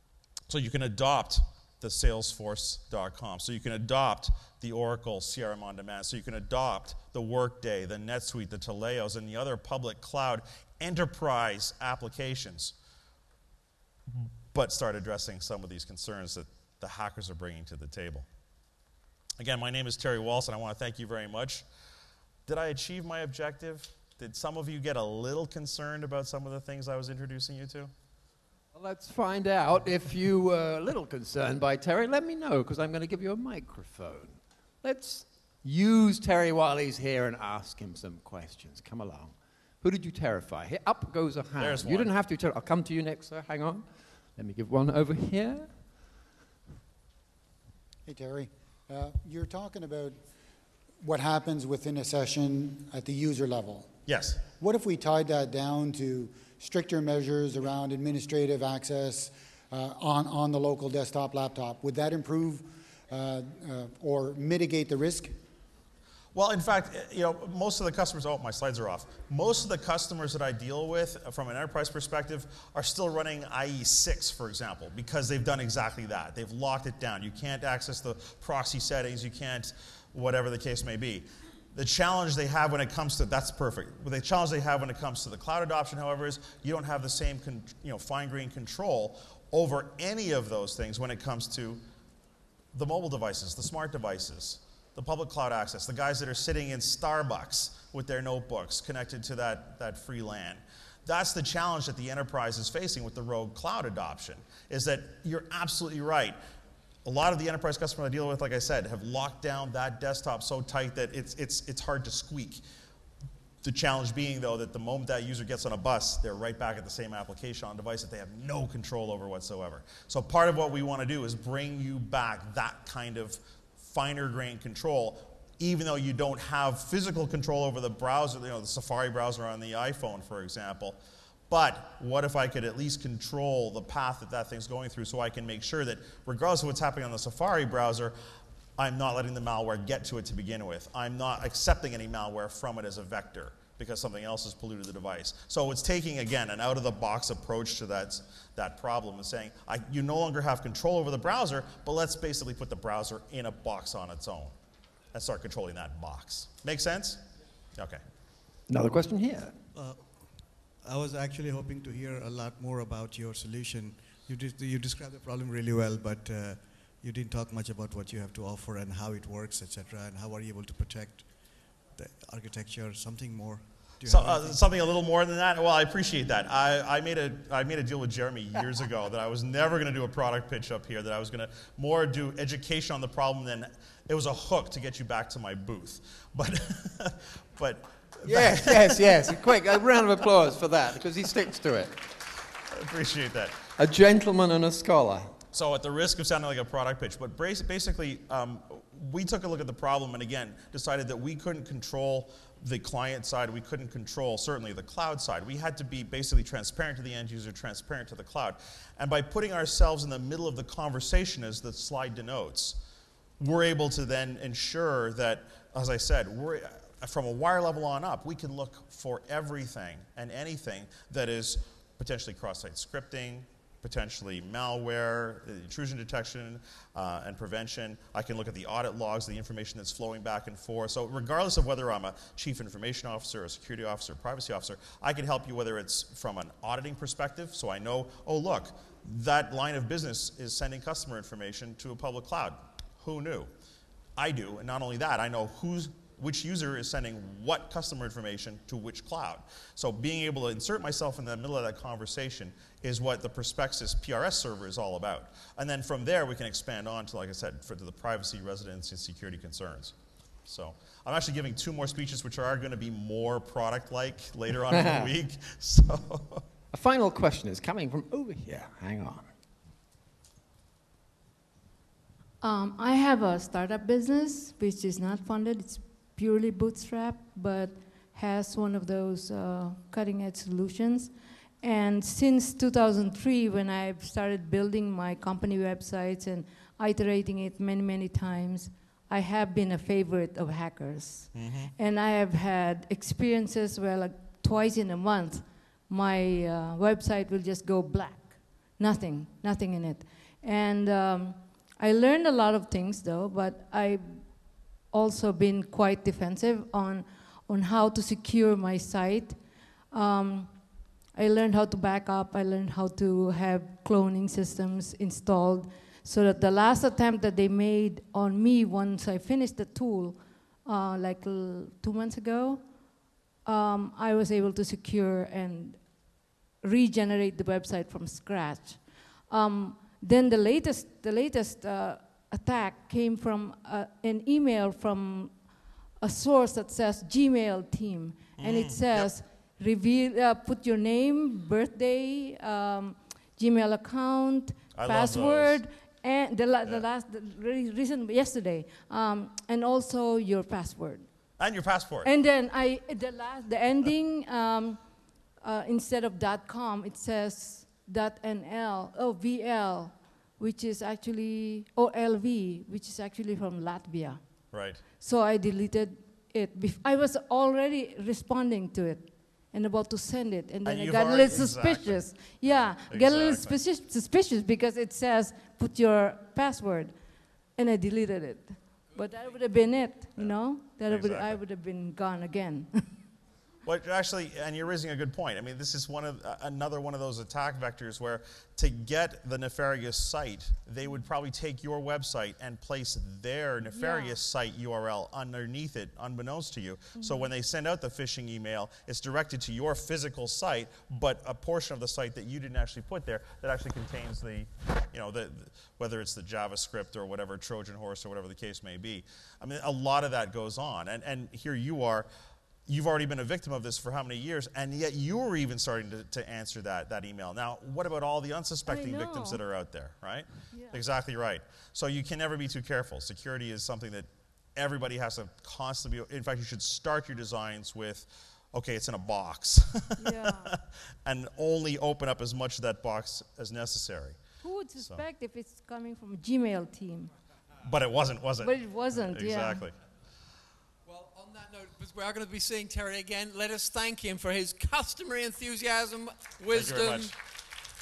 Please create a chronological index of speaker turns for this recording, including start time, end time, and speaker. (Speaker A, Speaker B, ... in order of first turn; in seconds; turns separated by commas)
Speaker A: 0.5-12.7, Speaker A: 14.1-18.2, Speaker A: 19.4-21.6, Speaker A: 22.5-27.9, Speaker B: 28.7-45.8, Speaker A: 41.6-42.1, Speaker C: 48.0-50.2, Speaker C: 51.0-53.9, Speaker A: 54.1-54.4, Speaker C: 54.5-65.3, Speaker A: 66.3-91.8, Speaker A: 92.7-106.4, Speaker A: 107.0-112.6, Speaker A: 113.6-131.0, Speaker A: 131.5-138.1, Speaker A: 138.8-154.5, Speaker A: 155.1-157.2, Speaker A: 157.8-158.0, Speaker B: 158.7-159.5, Speaker D: 159.7-174.6, Speaker A: 174.0-189.5, Speaker B: 188.2-191.9, Speaker A: 192.7-193.6, Speaker B: 193.8-195.3, Speaker A: 195.5-212.8, Speaker A: 213.4-243.5, Speaker A: 244.2-259.9, Speaker A: 260.5-266.4, Speaker B: 264.7-265.1, Speaker B: 266.7-269.3, Speaker E: 272.4-304.2, Speaker A: 291.3-291.7, Speaker E: 304.9-309.4, Speaker E: 309.9-310.5, Speaker E: 311.1-322.6, Speaker E: 323.4-325.8, Speaker E: 326.6-335.3, Speaker E: 336.0-351.1, Speaker A: 338.4-339.1, Speaker A: 344.7-345.6, Speaker A: 351.4-352.1, Speaker E: 352.0-354.8, Speaker E: 355.4-364.2, Speaker A: 364.5-364.8, Speaker E: 365.0-376.9, Speaker A: 370.6-373.6, Speaker E: 377.6-382.9, Speaker A: 380.9-381.4, Speaker A: 383.6-412.1, Speaker E: 393.7-394.2, Speaker E: 396.9-397.3, Speaker A: 412.7-434.2, Speaker E: 418.7-419.4, Speaker E: 420.5-420.8, Speaker E: 430.0-430.5, Speaker E: 434.4-437.1, Speaker A: 437.6-439.7, Speaker E: 438.4-439.6, Speaker B: 440.8-447.1, Speaker A: 446.5-447.1